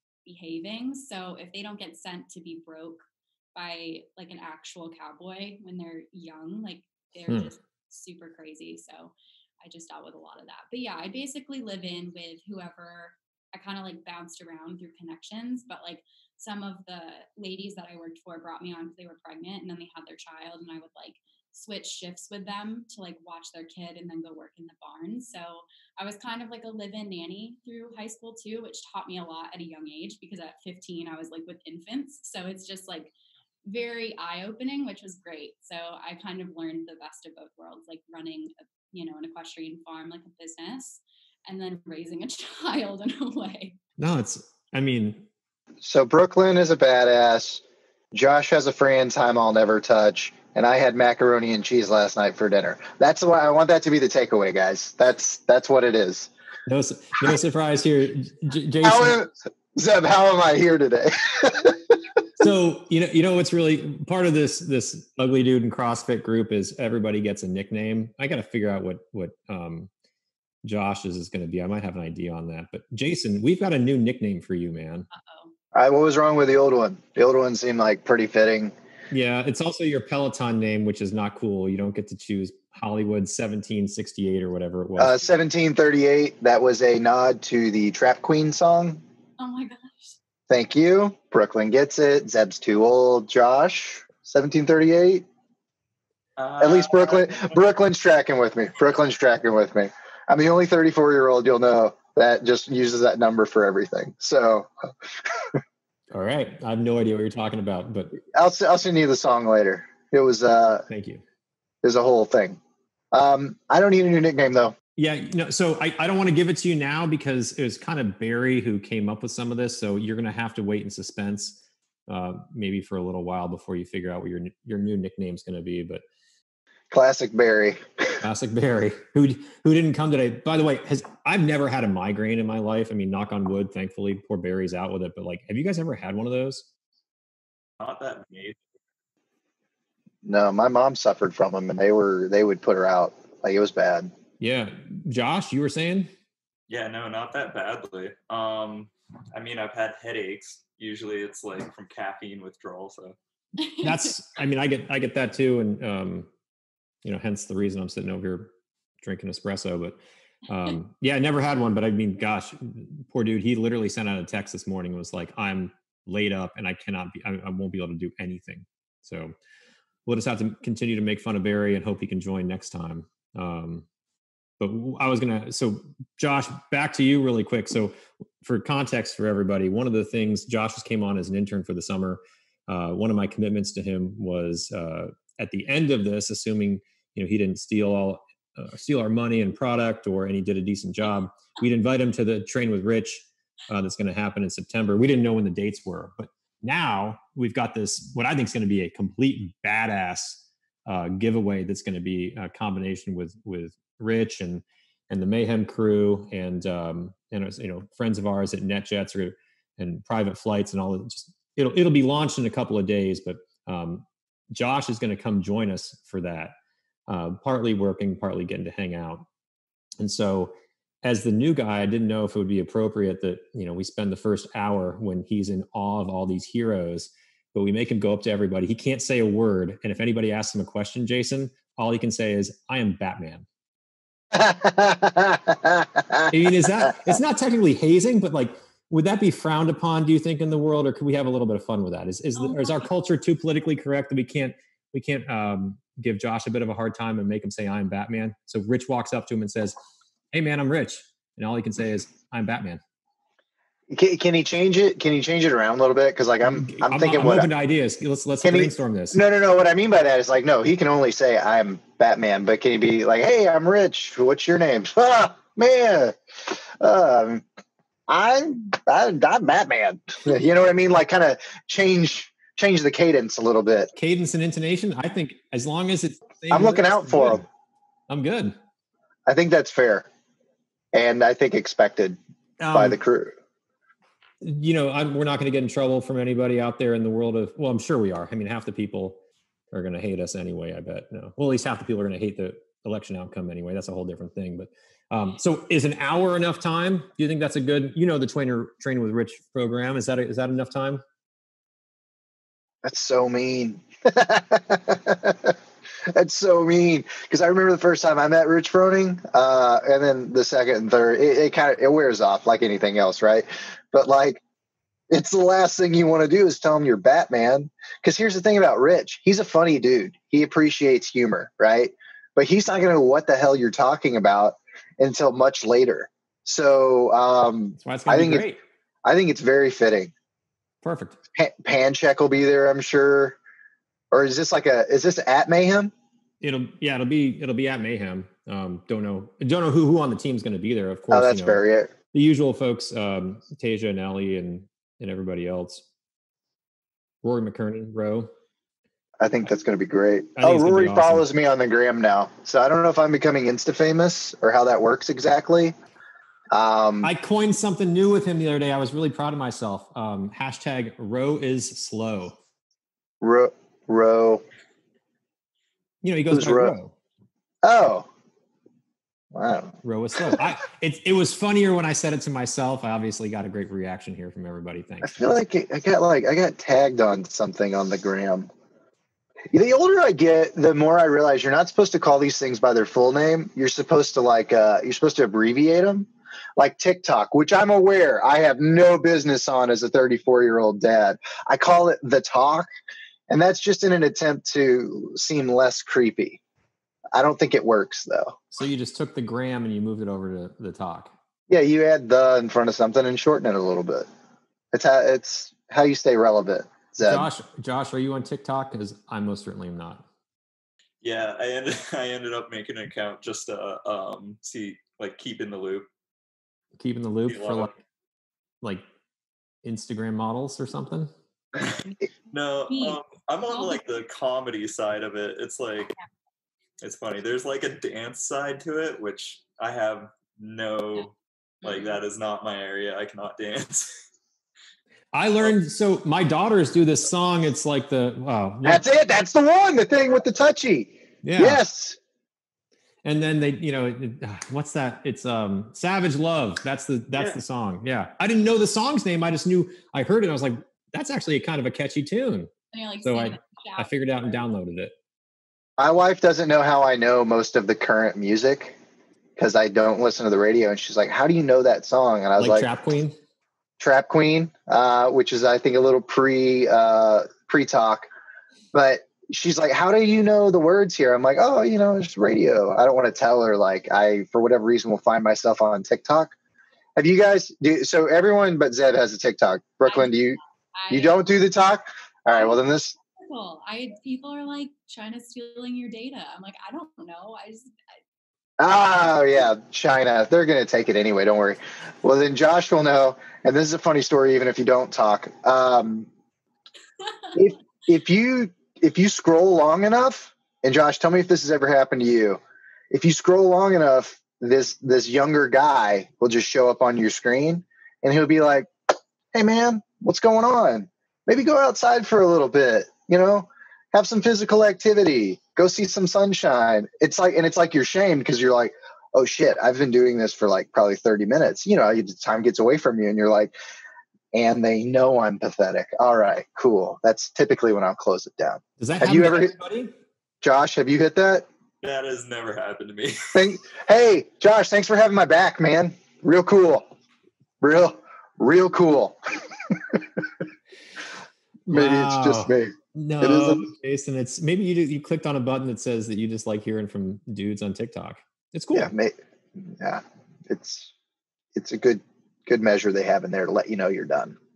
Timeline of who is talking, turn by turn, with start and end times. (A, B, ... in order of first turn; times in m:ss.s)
0:00.2-0:33.1 A
0:33.6-0:43.8 A
0:44.0-0:45.3 B
0:45.8-0:56.3 C
0:56.7-0:59.2 B
0:58.8-1:02.0 C
1:02.4-1:09.9 B
1:10.6-1:15.1 B
1:15.1-1:15.5 A
1:15.7-1:18.7 C
1:19.1-1:25.2 B
1:25.0-1:29.0 C
1:29.4-1:30.2 A
1:30.5-1:35.2 C
1:36.4-1:37.7 D
1:36.6-1:45.6 C
1:46.1-1:48.2 B
1:48.2-1:50.9 C
1:50.9-1:51.2 B
1:51.8-1:52.6 C
1:53.1-1:54.8 C
1:55.0-2:06.0 B
2:06.9-2:08.2 C
2:08.2-2:16.7 B
2:17.8-2:18.6 D
2:20.2-2:24.1 C
2:24.4-2:26.1 B
2:26.7-2:33.2 D
2:33.6-2:34.1 A
2:33.8-2:36.3 B
2:37.0-2:49.4 B
2:50.1-2:53.8 B
2:54.6-3:36.6 B
3:37.1-3:39.3 B
3:40.0-3:53.4 B
3:54.3-3:57.1 C
3:56.3-4:09.8 B
4:02.3-4:02.9 A
4:10.3-4:12.8 B
4:13.9-4:17.5 C
4:16.5-4:19.2 B
4:18.4-4:27.4 C
4:28.1-4:33.9 C
4:34.0-4:37.4 B
4:36.5-4:37.4 C
4:38.1-4:38.6 B
4:39.3-4:40.1 C
4:40.9-4:42.2 C
4:42.6-4:43.0 B
4:42.7-4:43.3 C
4:44.4-4:49.2 B
4:49.7-5:01.0 B
5:02.8-5:05.6 C
5:06.1-5:14.4 C
5:15.1-5:28.5 C
5:27.8-5:28.6 B
5:29.0-5:30.1 C
5:30.8-5:31.2 B
5:31.4-5:33.4 C
5:34.1-5:35.9 C
5:36.4-5:41.6 B
5:41.1-5:41.9 C
5:42.1-5:45.8 B
5:47.2-5:48.3 B
5:49.2-5:55.7 C
5:50.4-5:51.2 B
5:56.5-5:57.1 C
5:57.0-6:02.4 B
6:03.2-6:04.4 C
6:06.0-6:06.9 B
6:06.3-6:06.8 C
6:07.6-6:08.1 C
6:09.3-6:10.4 C
6:09.8-6:15.3 B
6:15.0-6:18.5 C
6:19.5-6:32.7 C
6:33.3-6:36.4 C
6:37.1-6:38.4 C
6:38.5-6:41.1 B
6:41.5-6:44.1 C
6:44.7-6:47.3 C
6:47.0-6:50.1 B
6:51.0-6:55.9 D
6:56.8-6:57.7 B
6:57.3-6:57.8 D
6:59.6-7:01.1 B
7:02.3-7:06.0 D
7:02.7-7:03.0 A
7:03.5-7:03.8 A
7:06.8-7:14.0 D
7:11.6-7:11.9 A
7:15.1-7:18.8 B
7:18.6-7:22.0 C
7:21.2-7:21.6 B
7:23.0-7:32.5 B
7:32.7-7:34.5 A
7:33.0-7:34.9 B
7:35.8-7:38.8 C
7:39.4-7:42.7 C
7:42.4-7:43.2 B
7:43.8-7:48.1 C
7:48.7-7:56.3 C
7:57.0-8:00.4 C
7:59.8-8:01.3 A
8:00.9-8:03.0 C
8:02.3-8:07.8 A
8:08.6-8:16.1 C
8:17.1-8:17.4 A
8:17.4-8:28.7 C
8:29.3-8:43.5 C
8:44.3-8:49.5 C
8:48.8-8:49.9 B
8:50.4-8:51.5 C
8:51.8-8:53.4 D
8:53.3-8:56.9 C
8:57.6-8:59.2 C
8:59.7-9:00.2 C
9:01.7-9:03.7 C
9:01.7-9:08.9 B
9:08.7-9:10.9 C
9:11.6-9:14.4 C